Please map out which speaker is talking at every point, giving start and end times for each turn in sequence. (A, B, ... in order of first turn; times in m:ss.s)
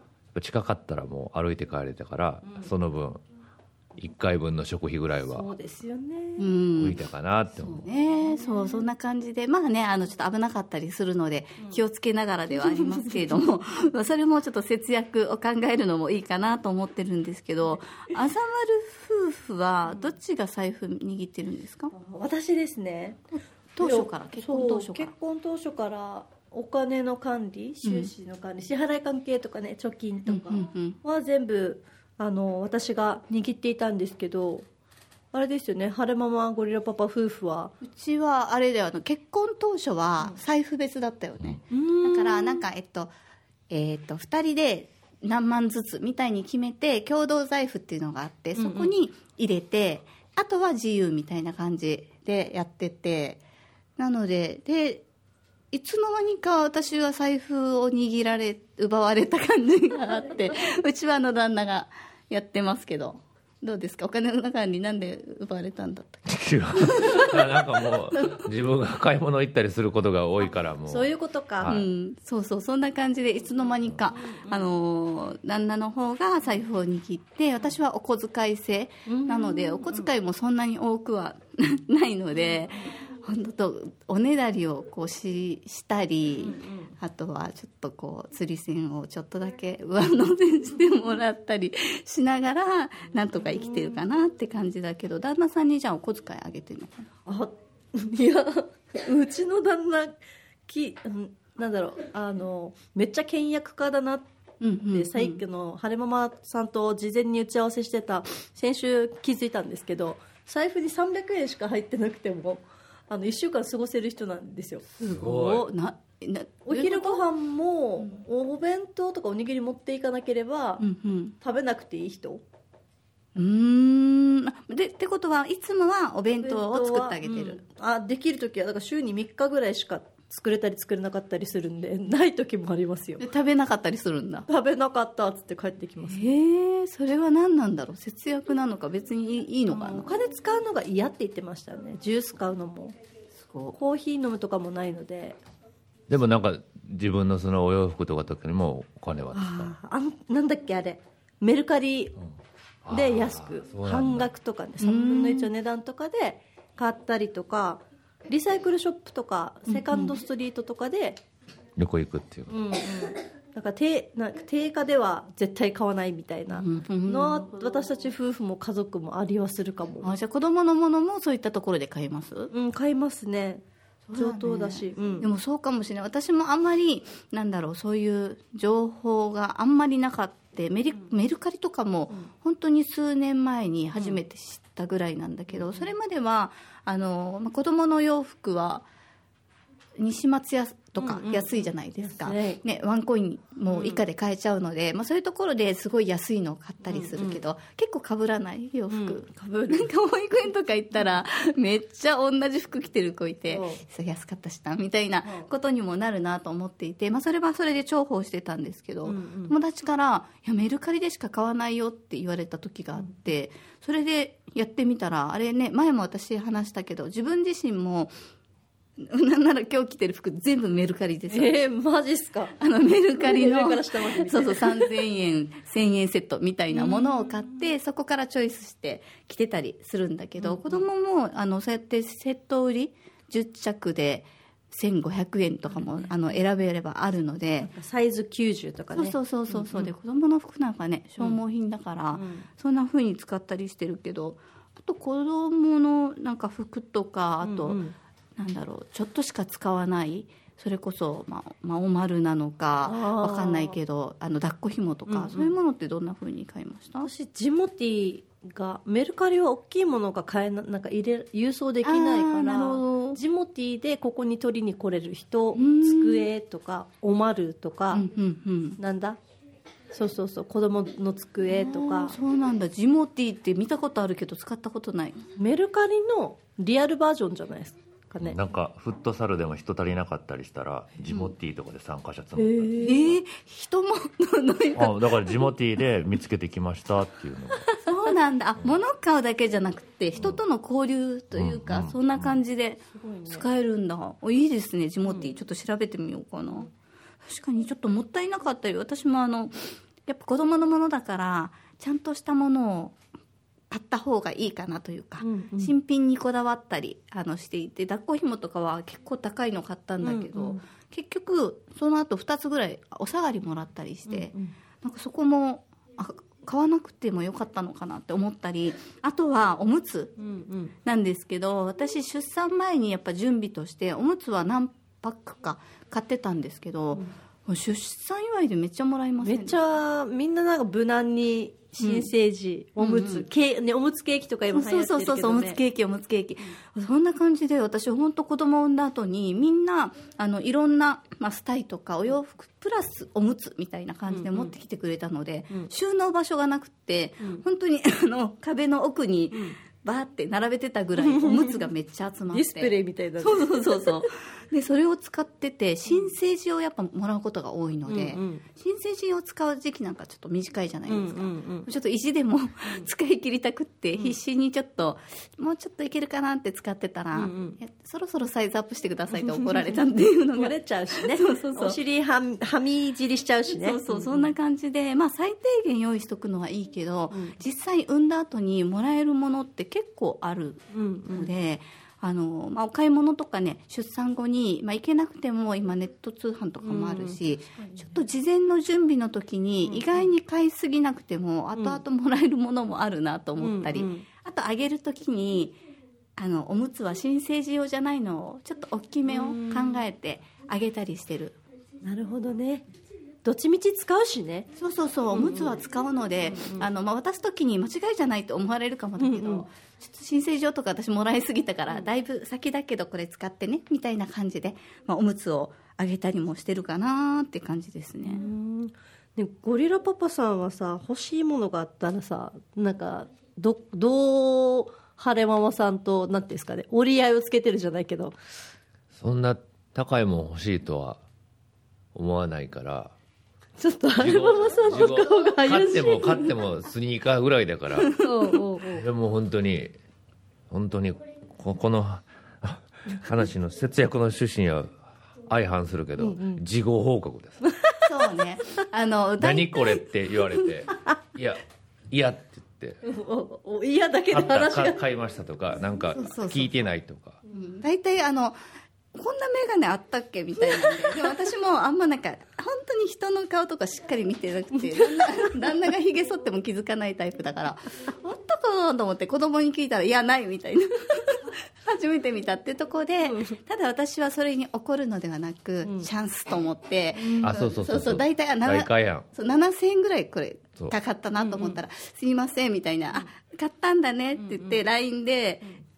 0:00.3-0:03.2 A
0:04.0-0:05.5 A
0:05.3-0:06.5 B
0:06.4-0:07.0 C
0:06.8-0:07.9 A
0:07.6-0:21.9 C
0:08.2-0:08.8 B
0:12.5-0:13.6 B
0:21.9-0:23.2 B
0:23.7-0:25.1 C
0:23.8-0:34.6 B
0:27.8-0:28.1 C
0:30.2-0:31.0 C
0:35.3-0:37.7 B
0:37.8-0:43.1 C
0:41.7-0:42.6 B
0:43.7-0:53.4 C
0:48.6-0:48.9 B
0:54.0-0:55.0 C
0:55.7-1:07.4 C
1:06.3-1:11.8 A
1:10.8-1:11.7 B
1:11.6-1:37.1 C
1:14.3-1:14.6 B
1:19.0-1:20.1 B
1:26.4-1:26.9 B
1:33.4-1:34.0 B
1:37.2-1:40.1 B
1:40.7-1:44.2 B
1:44.6-1:45.4 C
1:44.9-1:55.5 B
1:55.0-1:57.2 C
1:55.0-1:55.7 A
1:56.6-2:00.9 B
2:00.8-2:01.3 C
2:01.4-2:02.4 B
2:03.3-2:07.6 C
2:06.4-2:13.2 B
2:13.2-2:14.5 C
2:14.5-2:16.2 B
2:16.1-2:20.1 C
2:19.7-2:22.9 B
2:23.3-2:23.7 C
2:23.7-2:25.4 B
2:26.1-2:29.7 A
2:29.3-2:32.2 B
2:32.8-2:34.3 A
2:32.9-2:41.2 B
2:34.8-2:35.5 C
2:39.7-2:40.2 C
2:41.8-2:42.7 A
2:42.5-2:50.1 B
2:46.5-2:47.7 C
2:50.0-2:52.5 C
2:52.5-2:53.6 B
2:54.0-3:08.9 C
2:54.1-2:55.3 B
3:04.0-3:04.2 B
3:05.5-3:05.9 B
3:10.0-3:38.1 C
3:11.0-3:12.6 B
3:13.7-3:14.0 B
3:16.8-3:17.4 B
3:18.9-3:19.9 B
3:23.5-3:23.8 B
3:29.0-3:29.5 B
3:39.0-3:41.6 C
3:41.3-3:42.5 B
3:42.6-3:57.7 C
3:43.2-3:44.9 B
3:46.7-3:47.2 B
3:50.4-3:50.8 B
3:55.7-3:56.4 B
3:57.6-3:59.9 B
3:58.9-4:07.8 C
4:02.1-4:02.4 B
4:07.4-4:07.9 B
4:08.4-4:17.1 C
4:12.8-4:13.8 B
4:15.1-4:15.5 B
4:17.0-4:28.1 B
4:21.8-4:23.2 C
4:25.6-4:26.2 C
4:27.9-4:28.8 C
4:28.8-4:29.2 B
4:29.9-4:32.2 B
4:31.5-4:35.2 C
4:35.4-4:38.4 B
4:38.2-4:42.8 A
4:41.1-4:41.3 C
4:42.4-4:43.2 B
4:42.8-4:45.5 C
4:44.8-4:47.7 A
4:47.6-4:48.0 B
4:47.8-4:56.7 C
4:51.3-4:52.4 A
4:52.9-4:53.4 B
4:55.0-4:55.3 B
4:57.2-5:03.0 C
5:03.7-5:20.2 C
5:05.2-5:05.7 B
5:10.0-5:10.6 B
5:14.1-5:14.5 B
5:20.2-5:20.7 B
5:20.8-5:29.6 C
5:29.2-5:35.6 B
5:31.8-5:32.1 C
5:32.8-5:33.3 C
5:34.5-6:11.8 C
5:44.1-5:44.5 B
5:51.0-5:51.7 B
5:52.3-5:54.0 B
5:55.9-5:56.1 B
5:57.9-5:58.4 B
6:00.8-6:01.7 B
6:07.1-6:07.6 B
6:09.1-6:09.8 B
6:10.3-6:14.3 B
6:13.5-6:35.6 C
6:20.7-6:21.3 B
6:26.6-6:28.0 B
6:29.6-6:30.1 B
6:31.5-6:31.8 B
6:33.4-6:34.0 B
6:36.2-6:41.4 C
6:39.0-6:39.8 B
6:41.8-6:42.7 B
6:43.2-6:44.5 B
6:44.6-6:58.2 C
6:45.1-6:45.5 B
6:46.3-6:46.6 B
6:49.0-6:49.4 B
6:58.0-7:08.1 B
7:08.9-7:11.0 A
7:11.9-7:12.9 A
7:13.6-7:16.4 B
7:13.9-7:17.9 A
7:18.0-7:18.9 B
7:18.7-7:19.7 A
7:20.5-7:27.4 A
7:26.0-7:26.4 B
7:27.4-7:28.5 B
7:27.8-7:29.7 C
7:29.2-7:32.8 A
7:32.8-7:34.8 B
7:34.1-7:37.2 A
7:35.9-7:36.6 C
7:37.3-7:38.4 C
7:38.9-8:05.5 C
7:44.6-7:45.3 B
7:53.1-7:53.4 B
7:55.6-7:55.9 B
7:57.0-7:57.3 B
7:57.2-7:59.0 A
8:01.2-8:01.6 B
8:04.2-8:04.6 B